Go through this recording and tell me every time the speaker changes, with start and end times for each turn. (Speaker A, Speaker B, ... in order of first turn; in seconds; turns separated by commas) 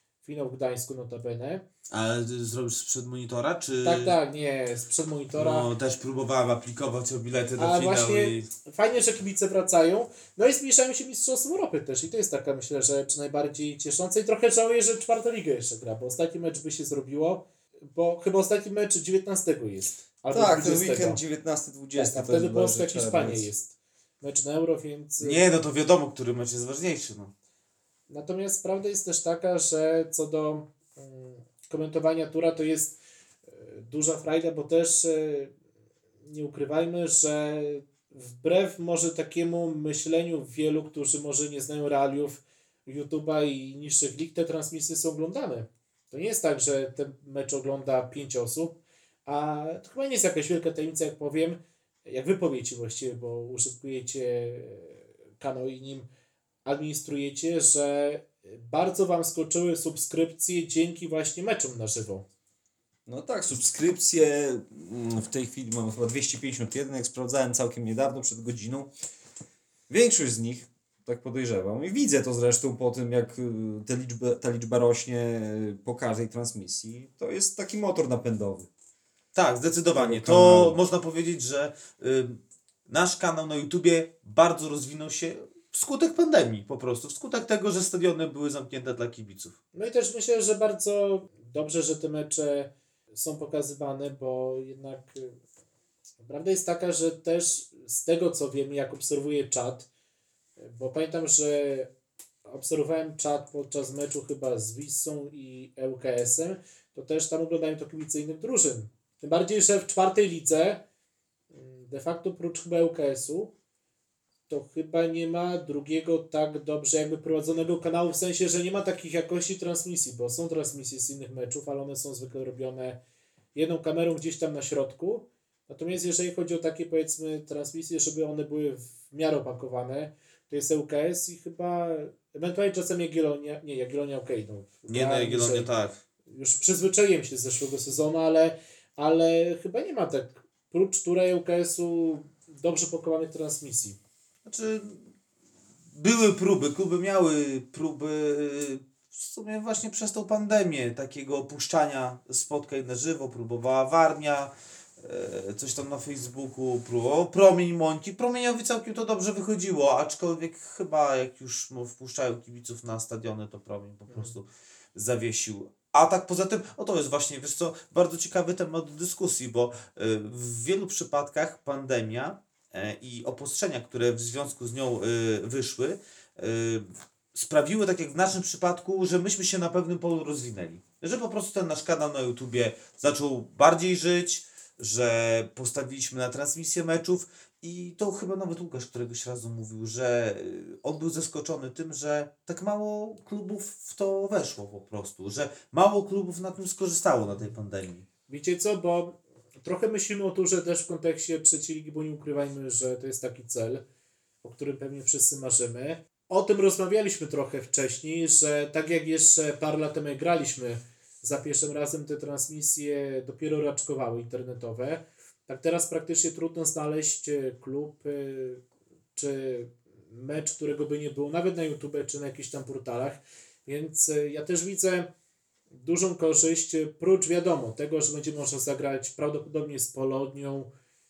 Speaker A: 0.2-1.6, Speaker B: 1.9-4.2, Speaker A: 3.8-5.7, Speaker B: 5.3-8.5, Speaker A: 7.6-21.2, Speaker C: 20.3-23.5, Speaker A: 21.9-25.4, Speaker B: 25.2-27.3, Speaker A: 28.1-33.0, Speaker A: 33.5-35.5, Speaker A: 36.2-56.1, Speaker A: 56.6-62.2, Speaker C: 63.0-68.9, Speaker C: 69.9-78.7, Speaker B: 79.3-89.6, Speaker C: 79.9-80.8, Speaker A: 89.7-95.4, Speaker A: 96.2-99.9, Speaker A: 100.6-101.9, Speaker A: 102.5-110.8, Speaker A: 111.5-113.5, Speaker A: 114.5-123.0, Speaker A: 123.5-135.7, Speaker B: 134.9-135.9, Speaker A: 136.3-144.0, Speaker B: 144.4-145.1, Speaker B: 145.9-198.1, Speaker A: 164.1-164.3, Speaker A: 198.3-203.8, Speaker A: 204.4-218.6, Speaker A: 219.1-225.1, Speaker A: 225.7-230.7